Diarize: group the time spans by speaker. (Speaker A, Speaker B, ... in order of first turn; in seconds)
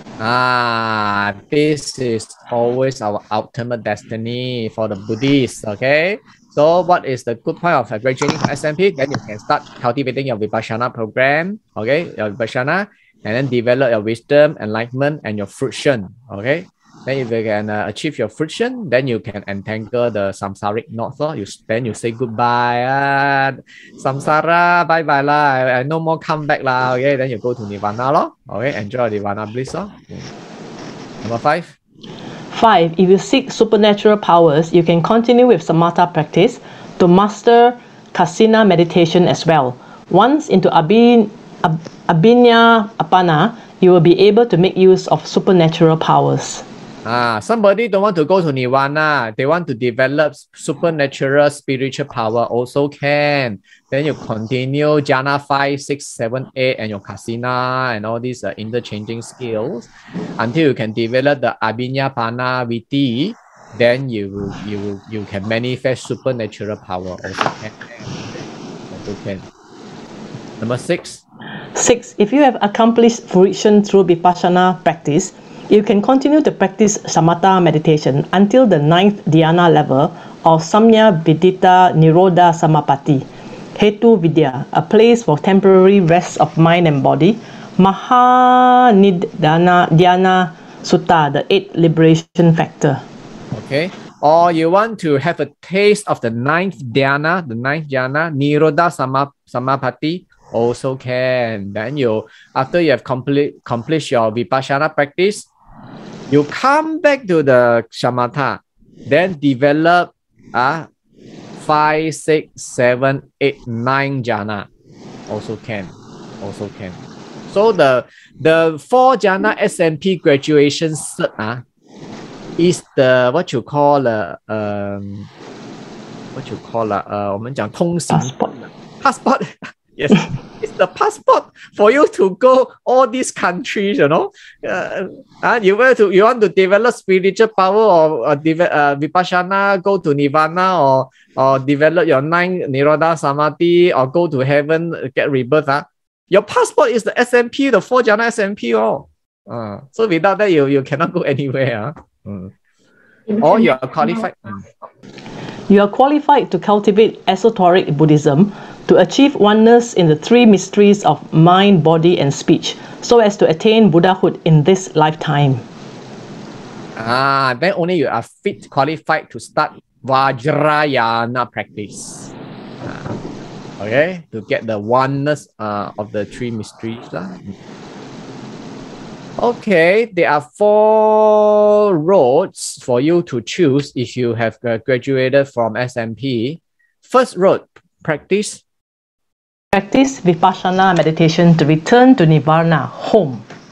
Speaker A: 0.2-30.3, 31.2-31.7, 47.0-68.2, 68.9-69.5, 70.6-71.2, 93.5-105.5, 106.3-110.9, 111.6-114.7, 115.3-117.0, 117.5-121.6, 122.6-125.3, 126.3-128.3, 129.0-152.5, 153.4-154.7, 167.0-172.3, 172.8-173.2, 173.8-177.5, 179.4-188.6
Speaker B: 32.5-46.6, 71.8-83.2, 83.8-93.0, 128.1-128.6, 155.7-165.6, 189.7-193.4